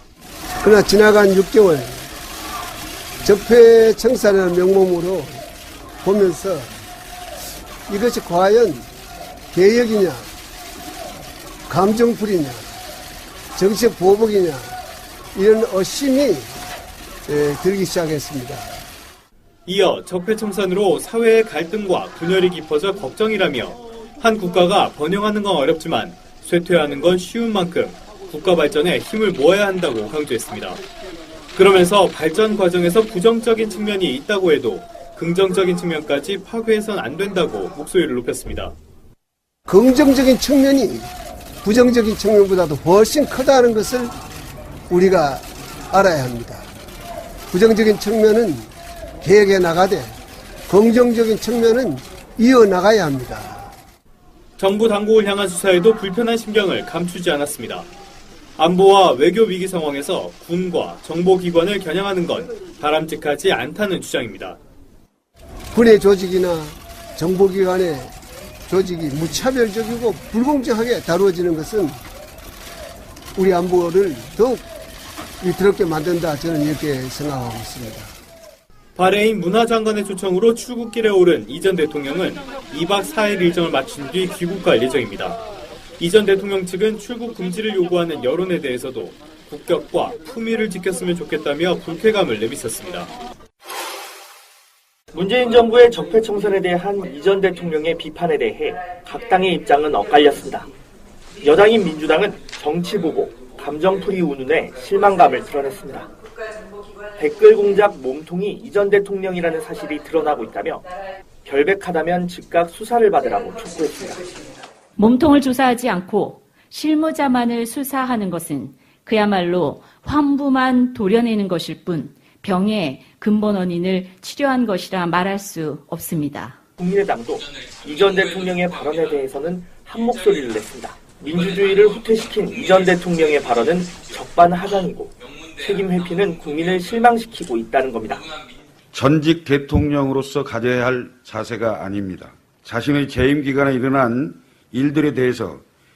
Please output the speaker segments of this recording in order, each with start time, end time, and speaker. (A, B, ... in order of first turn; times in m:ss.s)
0:00.6-0:02.0 A
0:03.2-0:05.4 A
0:06.0-0:06.7 A
0:07.9-0:08.9 A
0:09.5-0:10.3 A
0:11.7-0:12.7 A
0:13.6-0:14.8 A
0:15.3-0:16.6 A
0:17.3-0:18.8 A
0:19.7-0:30.8 B
0:31.5-0:38.8 B
0:39.7-0:41.1 A
0:41.6-0:44.1 A
0:44.9-0:46.7 A
0:47.5-0:48.7 A
0:49.2-0:50.2 A
0:50.7-0:53.7 A
0:54.6-0:57.9 B
0:58.6-1:04.6 B
1:05.7-1:08.1 A
1:08.7-1:12.0 A
1:13.4-1:14.7 A
1:15.4-1:18.1 A
1:19.0-1:25.4 B
1:26.0-1:33.1 B
1:35.1-1:40.7 C
1:41.4-1:46.1 C
1:47.2-1:50.9 C
1:51.4-1:54.3 C
1:55.0-2:06.6 D
2:06.8-2:18.3 C
2:18.9-2:25.6 E